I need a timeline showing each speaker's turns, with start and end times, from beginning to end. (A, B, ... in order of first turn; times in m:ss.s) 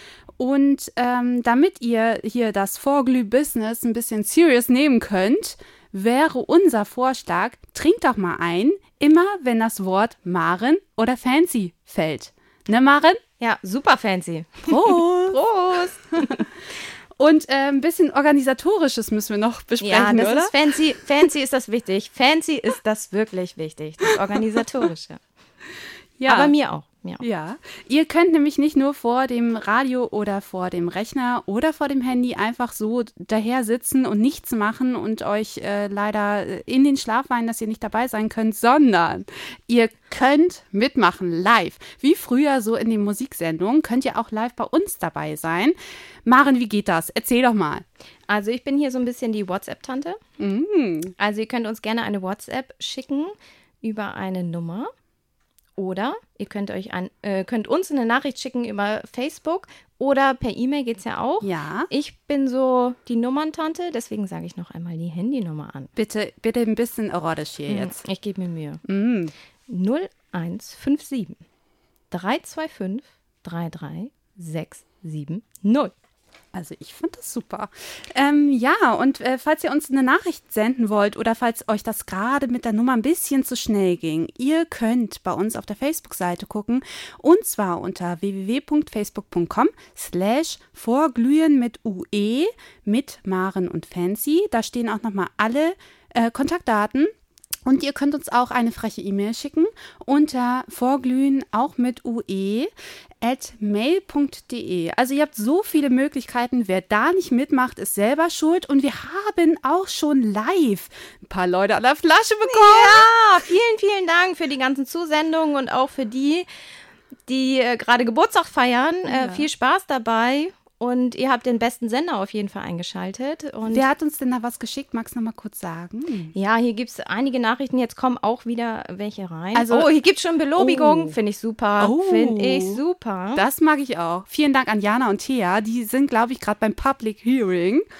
0:00.4-0:13.2 A
0:13.4-0:16.5 B
0:14.7-0:15.4 A
0:17.2-0:20.6 A
0:19.8-0:25.2 B
0:26.2-0:26.5 A
0:26.3-0:27.2 B
0:27.2-0:47.8 A
0:48.3-0:50.2 B
0:50.4-0:51.2 A
0:51.2-0:54.9 B
0:55.8-1:05.9 B
1:01.4-1:01.9 A
1:06.0-1:08.0 A
1:07.7-1:08.8 B
1:08.8-1:09.3 A
1:09.7-1:11.4 B
1:12.1-1:15.9 B
1:16.5-1:37.1 A
1:37.6-1:53.1 A
1:52.4-1:56.5 B
1:57.3-2:03.8 B
1:59.1-1:59.5 A
2:03.7-2:06.3 A
2:06.3-2:13.4 B
2:09.5-2:09.9 A
2:10.6-2:11.2 A
2:11.8-2:12.8 A
2:13.3-2:17.9 A